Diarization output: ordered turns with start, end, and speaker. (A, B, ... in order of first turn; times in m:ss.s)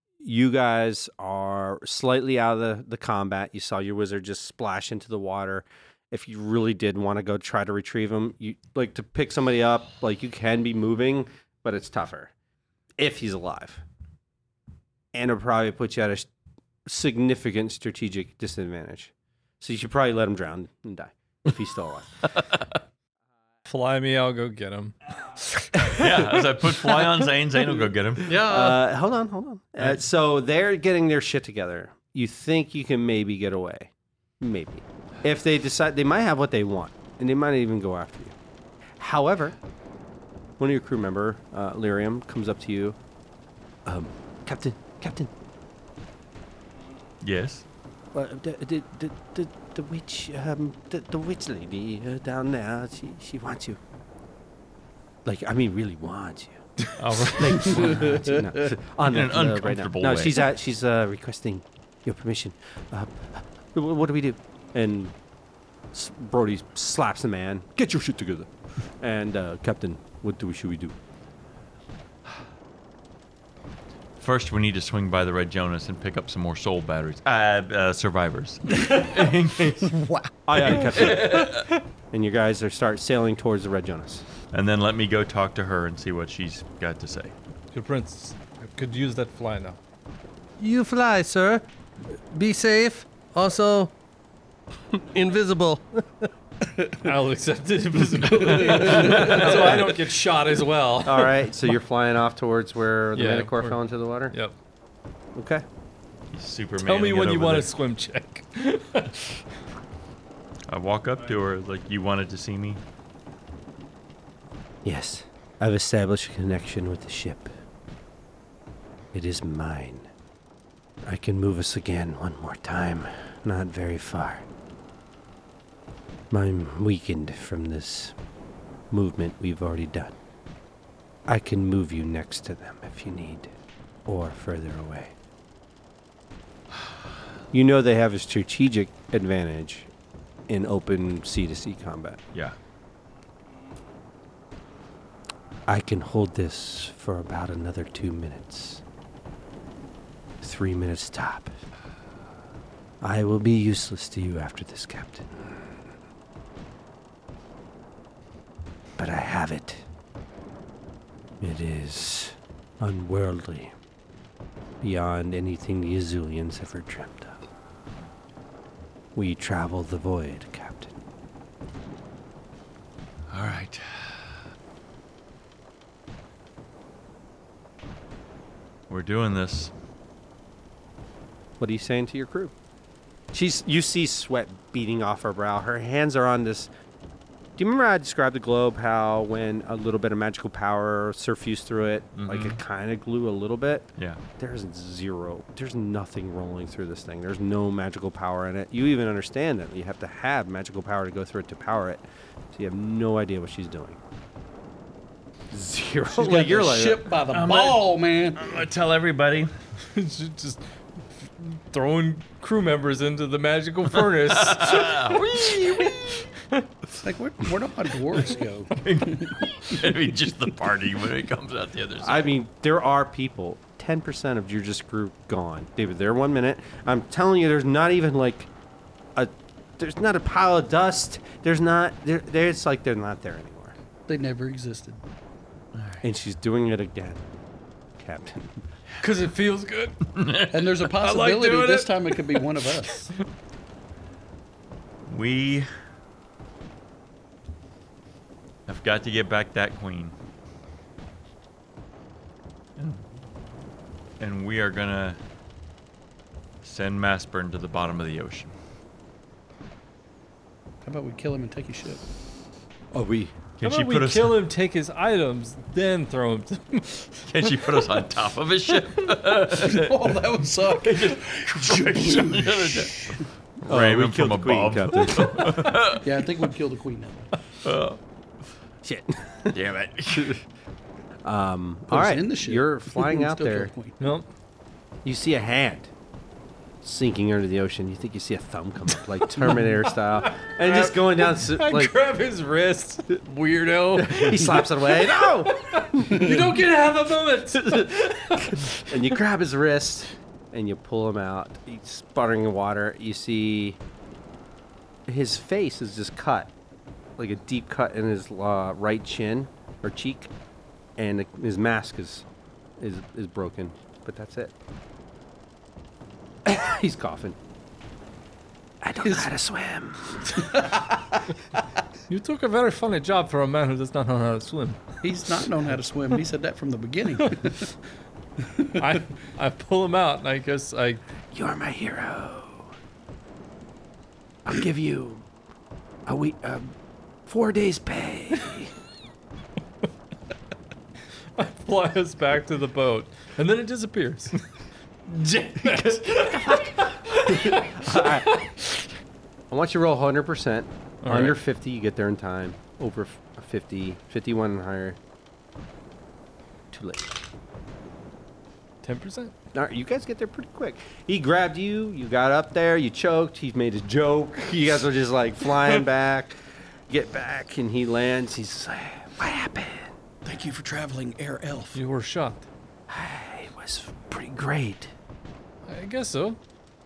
0:00.2-0:12.3 A
0:13.0-0:13.8 A
0:15.1-0:16.3 A
0:16.8-0:22.2 A
0:23.6-0:27.2 B
0:25.9-0:28.3 C
0:28.2-0:28.8 D
0:28.4-0:38.3 A
0:39.0-0:39.5 A
0:40.6-0:43.0 A
0:43.8-0:45.3 A
0:47.2-0:47.6 C
0:48.1-0:53.8 A
0:55.2-0:56.6 A
0:56.8-0:57.9 B
0:57.2-0:57.8 C
0:57.3-1:05.1 A
0:57.8-0:58.3 E
0:59.0-1:00.4 C
1:05.9-1:08.5 A
1:09.0-1:11.0 A
1:14.2-1:20.0 C
1:20.4-1:21.6 A
1:20.6-1:21.6 C
1:21.0-1:21.6 B
1:22.1-1:24.2 A
1:24.5-1:27.3 C
1:27.7-1:29.8 B
1:30.6-1:31.7 D
1:32.3-1:33.9 D
1:35.1-1:36.3 D
1:37.0-1:41.4 B
1:38.6-1:39.5 C
1:39.2-1:39.9 A
1:41.0-1:44.3 A
1:43.1-1:43.8 B
1:44.3-1:44.5 B
1:45.3-1:45.6 A
1:46.3-1:47.7 C
1:46.8-1:49.4 B
1:50.7-1:52.8 C
1:54.8-1:57.5 A
1:59.1-2:00.1 A
2:01.0-2:04.4 A
2:06.3-2:08.1 A
2:08.9-2:10.1 A
2:11.2-2:13.5 A
2:14.1-2:15.1 A
2:17.5-2:19.9 A
2:20.5-2:22.2 A
2:25.7-2:28.8 A
2:30.4-2:31.5 A
2:33.0-2:35.5 A
2:39.0-2:39.8 A
2:41.4-2:43.7 A
2:44.8-2:47.4 A
2:49.1-2:50.9 A
2:53.3-2:54.2 C
2:58.9-2:59.7 C
3:01.6-3:02.5 A
3:03.3-3:06.7 A
3:07.6-3:22.0 A
3:12.1-3:12.6 C
3:22.5-3:24.0 A
3:25.5-3:27.2 A
3:26.1-3:28.4 E
3:27.3-3:29.5 C
3:29.8-3:30.6 B
3:31.2-3:36.6 B
3:34.3-3:36.1 C
3:37.0-3:39.4 E
3:38.2-3:42.3 C
3:42.0-3:48.5 A
3:49.1-3:53.7 A
3:54.1-3:55.0 E
3:56.0-3:57.2 A
3:58.0-3:58.6 A
3:59.0-4:00.0 B
4:00.1-4:00.7 C
4:00.5-4:03.1 E
4:01.0-4:02.4 B
4:05.1-4:05.7 C
4:08.7-4:10.1 C
4:12.8-4:13.0 C
4:14.2-4:15.2 C
4:16.6-4:18.5 C
4:20.8-4:22.0 E
4:22.9-4:23.3 A
4:23.6-4:24.4 C
4:23.6-4:27.2 B
4:27.3-4:36.1 C
4:29.5-4:33.2 E
4:33.6-4:35.6 A
4:36.0-4:37.3 E
4:37.6-4:38.0 C
4:38.8-4:39.6 A
4:39.5-4:40.4 C
4:41.2-4:43.7 A
4:41.9-4:44.0 E
4:44.0-4:44.3 B
4:45.0-4:45.9 A
4:46.8-4:51.9 A
4:49.4-4:58.9 B
4:53.9-4:56.3 A
4:58.3-5:03.8 A
5:05.1-5:06.5 A
5:07.2-5:10.3 A
5:11.0-5:12.2 A
5:12.8-5:14.5 A
5:16.4-5:17.4 A
5:18.8-5:20.4 A
5:19.0-5:19.3 E
5:20.4-5:21.2 E
5:22.1-5:24.8 B
5:25.0-5:27.7 E
5:28.5-5:28.8 E
5:28.8-5:31.0 B
5:31.3-5:32.7 A
5:34.4-5:35.2 A
5:36.0-5:36.7 A
5:37.3-5:38.7 A
5:41.4-5:44.4 B
5:45.1-5:48.6 B
5:45.7-5:48.4 A
5:49.5-5:55.0 A
5:51.0-5:51.4 B
5:56.7-5:57.2 A
5:58.8-5:59.3 B
5:59.5-6:06.4 A
6:06.9-6:09.9 A
6:10.2-6:11.8 E
6:11.7-6:12.4 B
6:12.9-6:14.9 A
6:15.6-6:16.4 B